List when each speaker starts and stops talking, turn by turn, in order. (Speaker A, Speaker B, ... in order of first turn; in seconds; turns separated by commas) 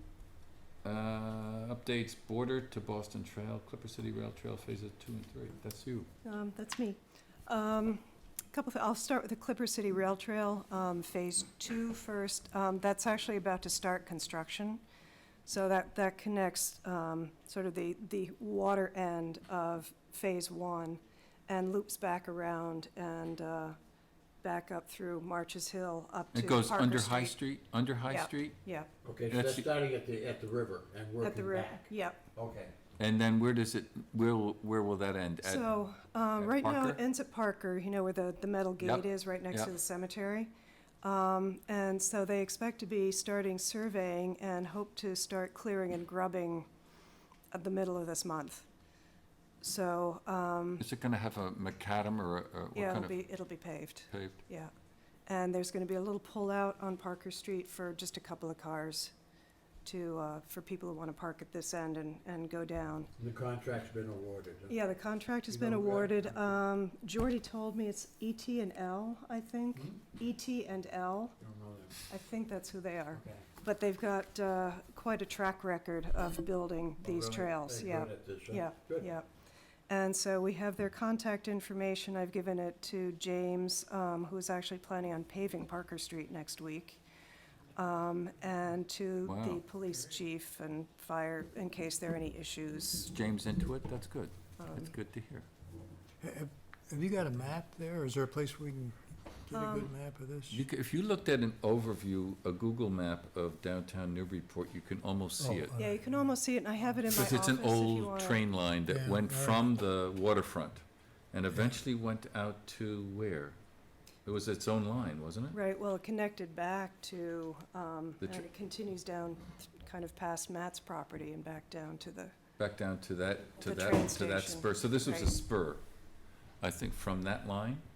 Speaker A: 0.8-6.1, Speaker B: 6.2-8.0, Speaker B: 8.5-14.8, Speaker B: 15.4-23.8, Speaker B: 24.4-27.4, Speaker A: 26.3-28.6, Speaker B: 28.1-28.9, Speaker C: 29.0-32.7, Speaker A: 29.3-29.6, Speaker B: 31.2-32.2, Speaker A: 33.0-35.7, Speaker B: 35.4-40.5, Speaker A: 36.4-37.0, Speaker A: 38.8-39.7, Speaker B: 41.0-46.7, Speaker B: 47.5-48.7, Speaker B: 49.6-50.8, Speaker A: 50.8-53.2, Speaker B: 52.7-54.7, Speaker A: 54.1-54.4, Speaker B: 55.2-59.1, Speaker B: 59.8-63.1, Speaker C: 63.2-64.8, Speaker B: 64.7-71.3, Speaker C: 65.5-66.5, Speaker C: 71.4-72.0, Speaker B: 72.1-79.3, Speaker C: 73.2-73.5, Speaker C: 77.0-79.1, Speaker B: 79.9-87.0, Speaker B: 87.8-93.1, Speaker A: 89.2-89.6, Speaker A: 93.1-95.5, Speaker B: 94.6-94.9, Speaker D: 96.2-100.6, Speaker B: 99.5-99.9, Speaker A: 100.5-105.8, Speaker D: 105.4-106.0, Speaker B: 105.8-108.4, Speaker A: 107.1-113.6, Speaker D: 108.9-109.6, Speaker A: 114.2-115.6, Speaker B: 115.5-122.3, Speaker A: 122.6-125.8, Speaker B: 123.6-125.3, Speaker A: 126.6-127.8